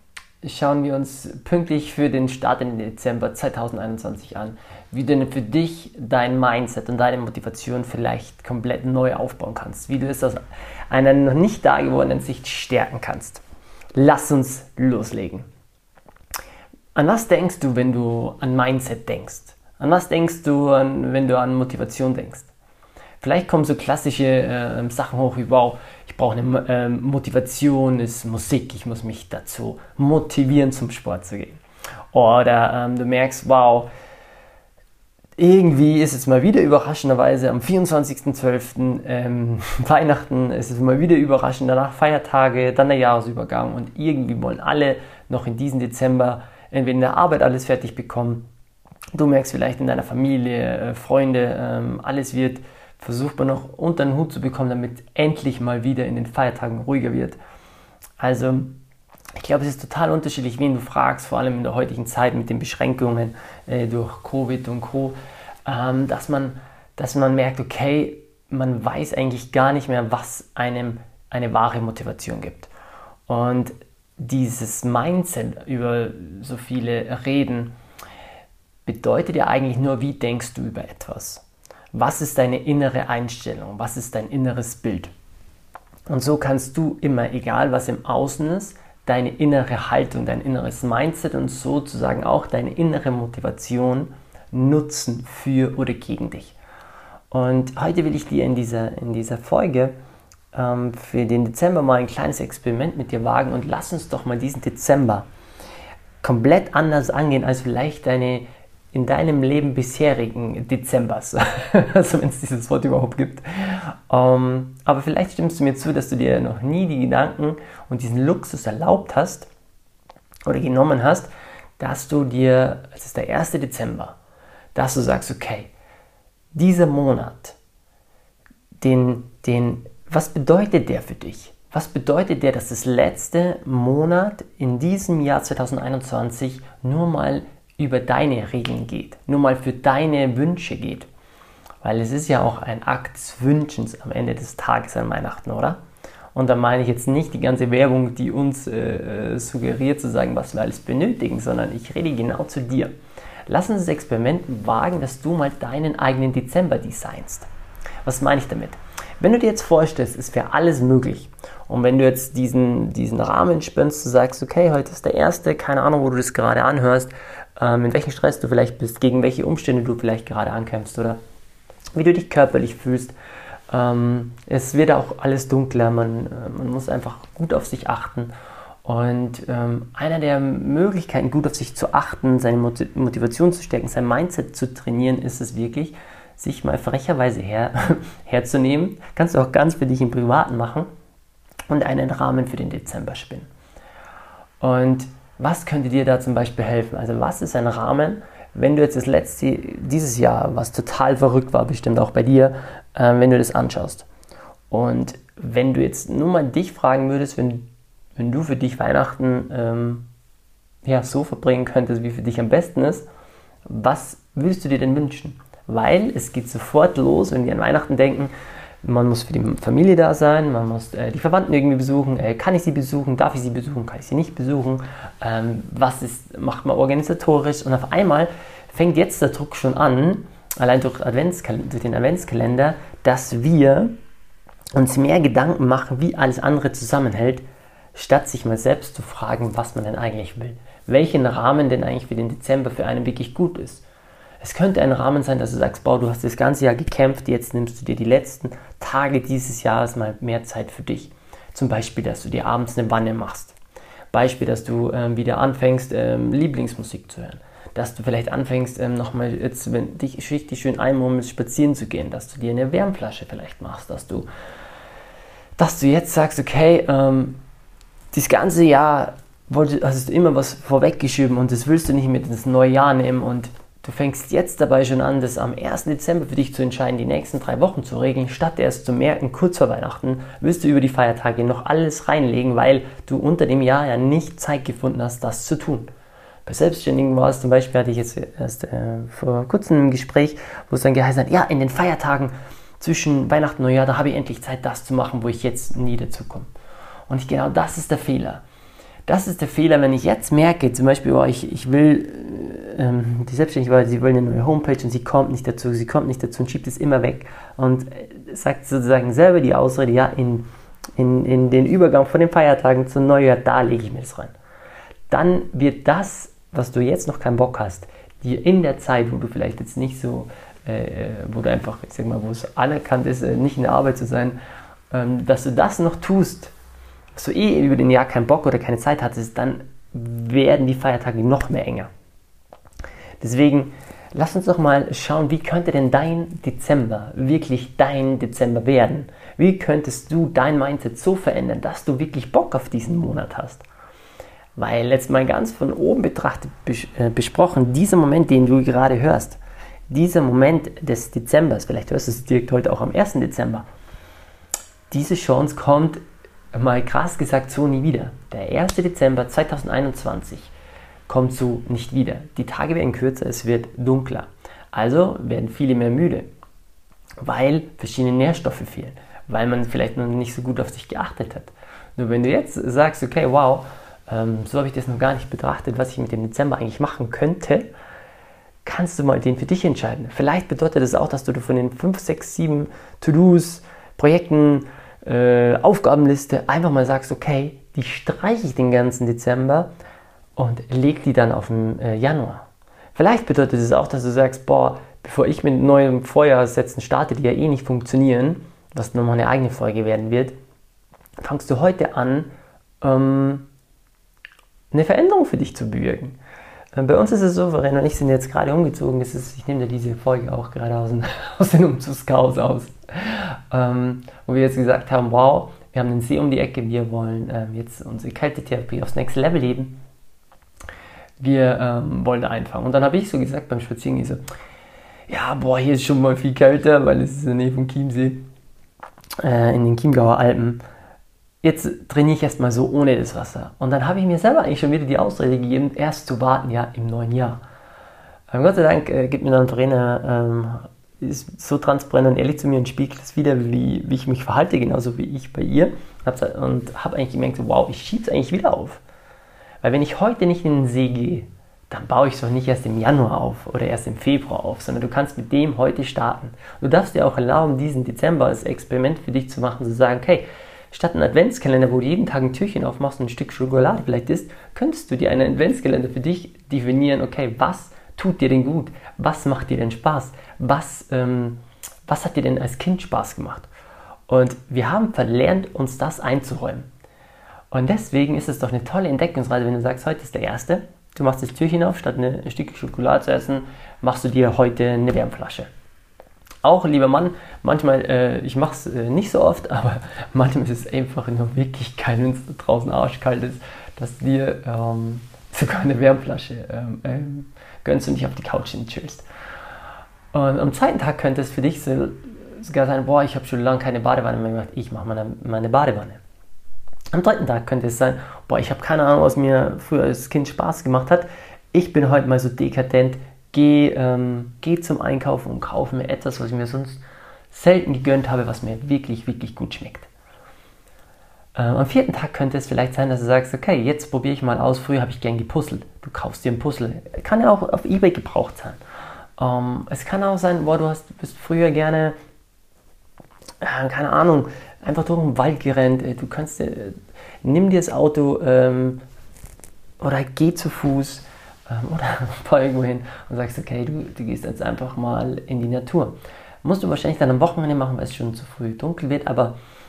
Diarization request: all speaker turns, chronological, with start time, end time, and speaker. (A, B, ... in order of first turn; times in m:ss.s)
0:00.4-0:13.4 A
0:13.9-0:15.5 A
0:16.9-0:22.5 A
0:23.2-0:31.6 A
0:32.1-0:33.9 A
0:35.4-0:48.5 A
0:49.1-0:57.4 A
0:58.2-0:58.8 A
0:59.4-1:12.7 A
1:13.3-1:17.7 A
1:18.8-1:25.1 A
1:26.1-1:36.6 A
1:37.3-1:39.9 A
1:40.5-1:45.3 A
1:46.2-1:59.5 A
2:00.4-2:04.2 A
2:04.7-2:05.7 A
2:06.5-2:07.6 A
2:08.8-2:21.1 A
2:21.8-2:25.8 A
2:26.3-2:32.9 A
2:33.5-2:37.5 A
2:38.0-2:51.2 A
2:51.9-2:53.2 A
2:53.7-2:58.3 A
2:58.8-3:10.9 A
3:11.7-3:13.5 A
3:14.6-3:24.1 A
3:24.7-3:30.1 A
3:30.8-3:33.1 A
3:33.6-3:53.9 A
3:54.7-3:57.4 A
3:57.9-4:03.8 A
4:04.4-4:13.6 A
4:14.1-4:24.3 A
4:25.6-4:27.4 A
4:28.1-4:45.9 A
4:46.4-4:56.5 A
4:57.1-4:58.4 A
4:59.0-5:10.4 A
5:11.0-5:14.3 A
5:15.1-5:24.4 A
5:24.9-5:26.5 A
5:27.1-5:31.9 A
5:33.2-5:43.6 A
5:44.6-5:53.6 A
5:54.9-5:56.0 A
5:56.5-6:00.5 A
6:01.1-6:06.3 A
6:07.2-6:17.7 A
6:18.6-6:29.7 A
6:30.4-6:40.4 A
6:41.2-6:42.3 A
6:42.8-6:43.5 A
6:44.7-6:46.2 A
6:46.8-6:59.8 A
7:01.2-7:04.2 A
7:05.1-7:08.2 A
7:09.2-7:10.6 A
7:11.4-7:17.4 A
7:18.3-7:28.8 A
7:29.6-7:53.5 A
7:54.1-7:56.7 A
7:57.5-8:05.5 A
8:06.4-8:19.0 A
8:20.1-8:26.0 A
8:26.9-8:39.9 A
8:41.3-8:48.6 A
8:49.2-8:52.0 A
8:53.4-8:58.8 A
8:59.8-9:09.4 A